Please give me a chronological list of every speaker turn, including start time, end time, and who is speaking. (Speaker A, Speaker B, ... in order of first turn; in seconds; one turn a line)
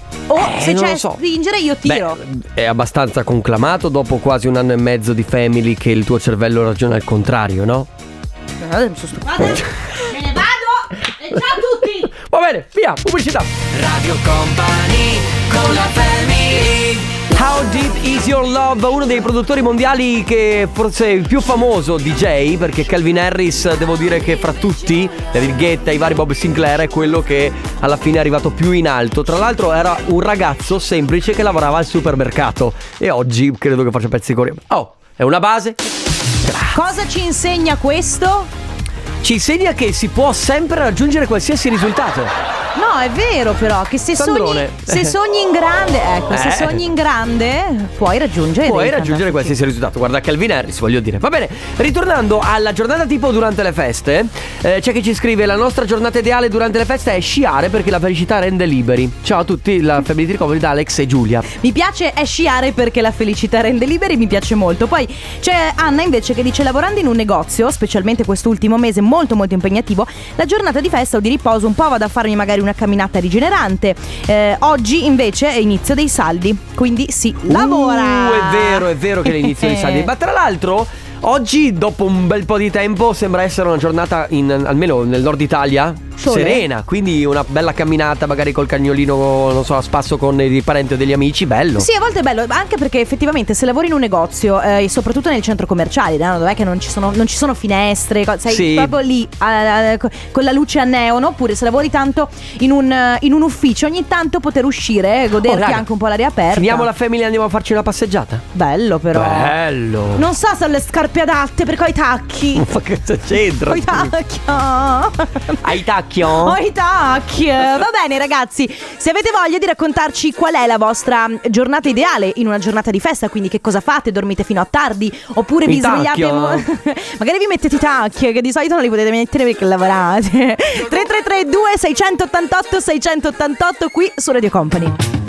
Speaker A: 0.3-2.2
Speaker B: 0.3-1.2
Speaker B: 1.9-7.9
Speaker A: 8.6-12.1
Speaker B: 9.4-9.8
Speaker B: 11.3-35.8
Speaker B: 36.4-36.8
Speaker A: 36.7-38.5
Speaker B: 39.2-42.3
Speaker A: 42.8-49.5
Speaker B: 44.2-45.2
Speaker B: 46.3-46.8
Speaker B: 48.6-61.5
Speaker A: 61.6-80.1
Speaker B: 77.5-91.9
Speaker A: 86.2-86.7
Speaker A: 91.8-106.9
Speaker B: 98.5-99.0
Speaker B: 105.4-105.9
Speaker B: 106.5-108.5
Speaker A: 108.5-109.6
Speaker B: 109.1-110.3
Speaker A: 110.1-112.7
Speaker B: 112.5-114.1
Speaker A: 113.7-115.6
Speaker B: 115.6-116.6
Speaker A: 116.4-135.0
Speaker B: 125.6-126.7